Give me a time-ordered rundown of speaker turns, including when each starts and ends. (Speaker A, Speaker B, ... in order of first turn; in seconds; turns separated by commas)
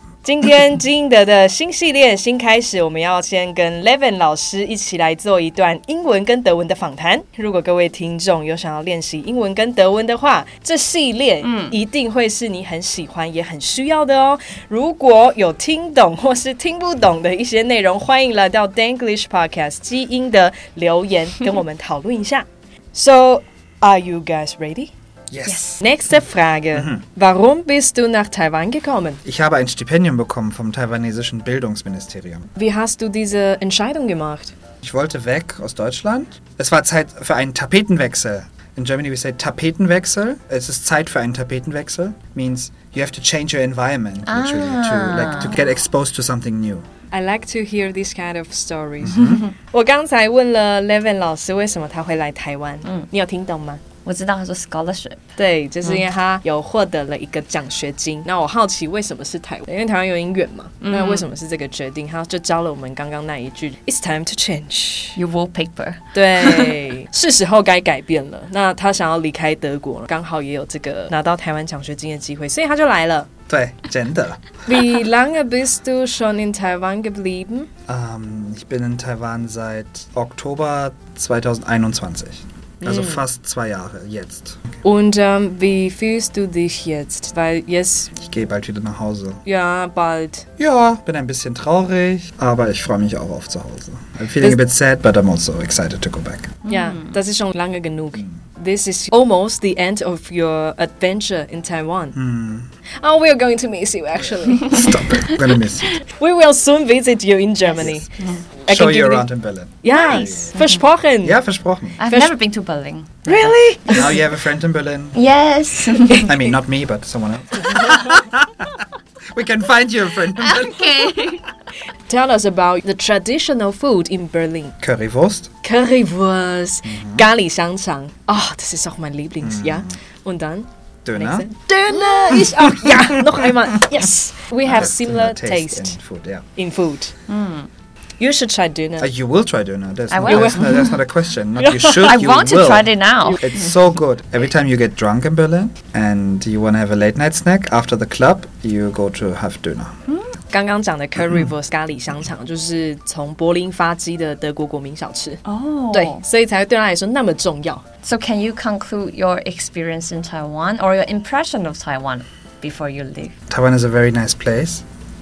Speaker A: 0.2-24.9, Speaker B: 11.4-11.7, Speaker C: 25.3-25.8, Speaker B: 25.4-25.7, Speaker A: 25.8-29.2, Speaker C: 26.7-27.0, Speaker C: 29.2-32.5, Speaker A: 32.5-34.5, Speaker C: 34.8-46.9, Speaker B: 44.3-45.6, Speaker A: 47.1-53.8, Speaker C: 49.0-49.5, Speaker B: 54.0-55.2, Speaker A: 55.4-65.2, Speaker B: 60.8-61.2, Speaker B: 65.2-66.8, Speaker A: 66.1-73.3, Speaker C: 73.5-74.5, Speaker A: 74.7-77.7, Speaker C: 77.9-84.7, Speaker A: 82.8-83.2, Speaker A: 84.8-88.1, Speaker C: 88.2-89.4, Speaker A: 89.4-90.5, Speaker C: 90.6-96.6, Speaker A: 96.7-102.2, Speaker B: 96.7-97.1, Speaker C: 102.1-102.7, Speaker A: 103.0-105.0, Speaker C: 104.7-105.9, Speaker A: 106.1-109.3, Speaker C: 108.7-110.6, Speaker A: 109.8-111.4, Speaker B: 110.0-110.8, Speaker C: 111.2-112.0, Speaker B: 112.0-113.5, Speaker A: 112.0-112.3, Speaker A: 113.2-114.2, Speaker C: 113.9-115.2, Speaker B: 115.1-116.3, Speaker C: 116.2-118.8, Speaker C: 119.3-121.4, Speaker B: 120.4-121.4, Speaker A: 122.1-124.7, Speaker C: 124.8-125.5, Speaker A: 125.6-135.9, Speaker C: 126.8-127.3, Speaker C: 129.4-129.9, Speaker C: 131.0-131.4, Speaker C: 132.6-133.1, Speaker C: 134.6-136.4, Speaker A: 136.6-137.1, Speaker B: 137.3-137.7, Speaker A: 138.2-139.1, Speaker C: 139.0-149.9, Speaker B: 140.1-140.8, Speaker A: 140.3-140.6, Speaker A: 141.6-142.0, Speaker B: 141.9-143.5, Speaker A: 150.5-157.8, Speaker C: 151.2-151.5, Speaker B: 155.4-156.2, Speaker B: 158.0-163.3, Speaker C: 163.5-164.8